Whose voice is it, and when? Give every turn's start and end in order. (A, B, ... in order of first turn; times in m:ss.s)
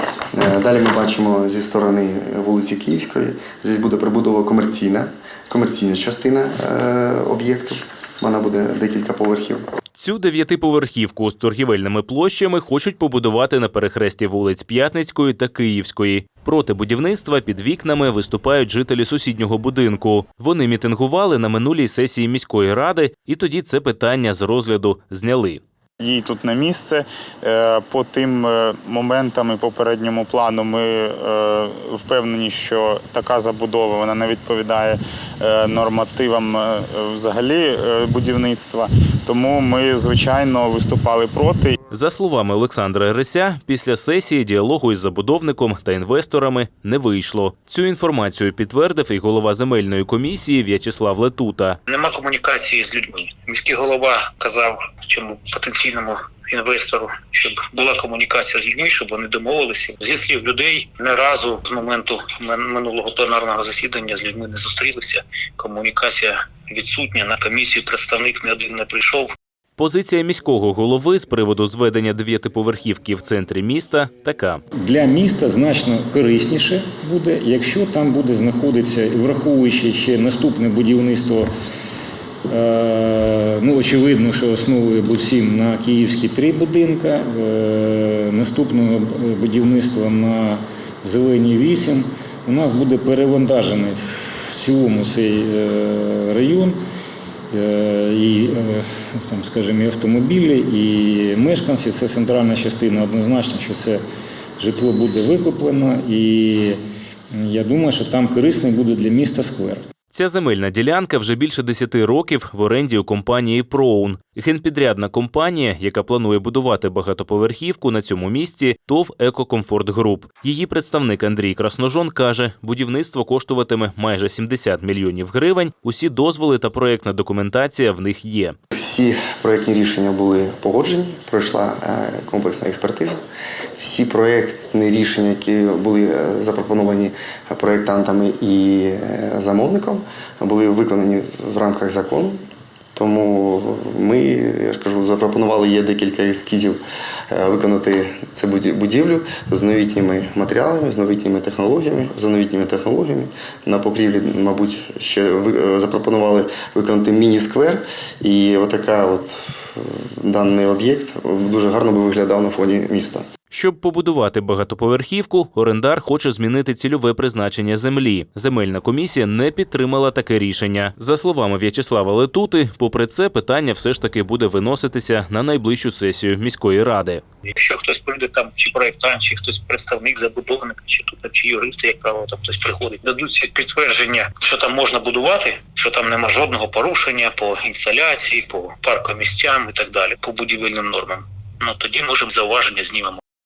0:00.3-0:09.6 A
0:10.0-0:25.6 B
0:26.0-0:41.8 C
0:41.9-0:51.8 B
0:51.9-1:09.3 D
1:09.8-1:14.6 B
1:14.8-1:21.5 E
1:22.5-1:36.8 E
1:37.5-1:44.0 E
1:44.6-1:46.8 E
1:47.3-1:49.8 E
1:50.1-2:08.5 B
2:08.7-2:13.1 A
2:13.8-2:22.4 A
2:22.9-2:26.8 A
2:27.3-2:43.2 A
2:43.5-2:57.2 B
2:57.5-3:13.2 D